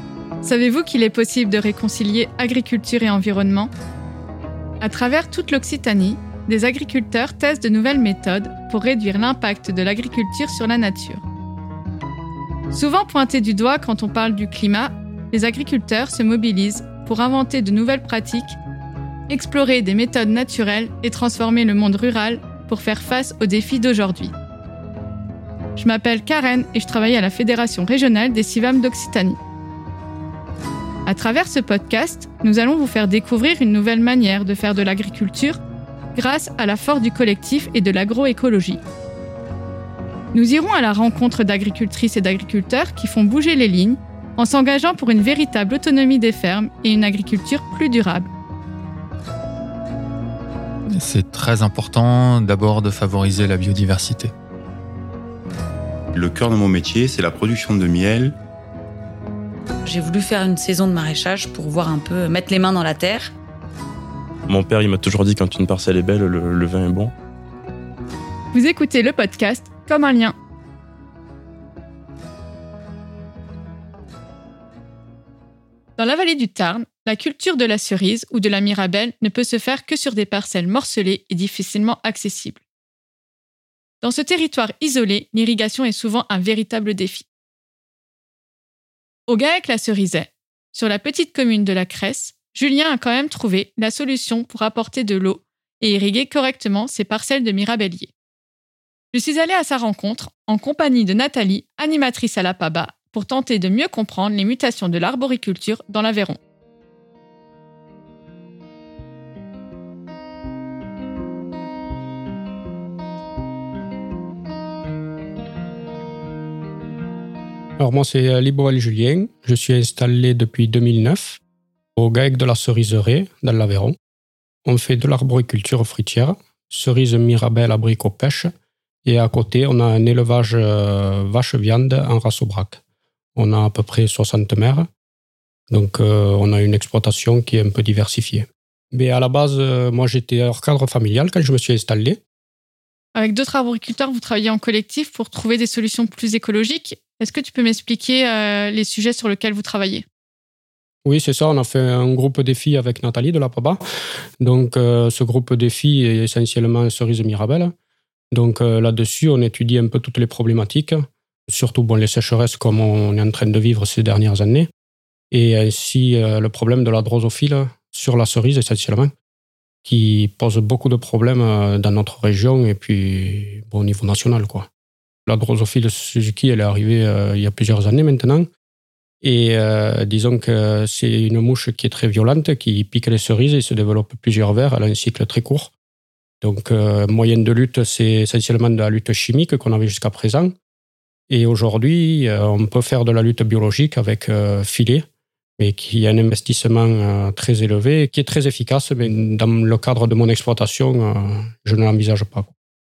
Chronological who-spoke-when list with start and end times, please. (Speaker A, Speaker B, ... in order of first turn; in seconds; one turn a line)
Speaker A: 0.4-3.7
Speaker A: 4.8-11.2
Speaker A: 12.7-18.6
Speaker A: 19.3-24.3
Speaker A: 25.8-29.4
Speaker A: 31.1-35.6
Speaker A: 36.1-38.8
Speaker A: 40.3-48.3
Speaker B: 50.9-54.3
Speaker C: 56.2-58.3
Speaker D: 59.9-63.3
Speaker E: 64.5-67.1
Speaker A: 68.5-70.3
Speaker A: 76.0-82.6
Speaker A: 84.0-87.3
Speaker A: 89.3-98.1
Speaker A: 99.1-106.4
Speaker F: 117.8-121.4
Speaker F: 122.0-124.0
Speaker F: 124.7-128.5
Speaker F: 129.1-132.8
Speaker F: 133.4-134.9
Speaker F: 135.7-142.2
Speaker A: 143.2-150.1
Speaker F: 151.1-153.8
Speaker F: 154.4-157.7
Speaker F: 158.3-164.7
Speaker F: 165.3-169.1
Speaker F: 169.8-174.7
Speaker F: 175.3-178.5
Speaker F: 179.2-185.7
Speaker F: 186.4-190.5
Speaker F: 191.3-195.1
Speaker F: 195.6-202.5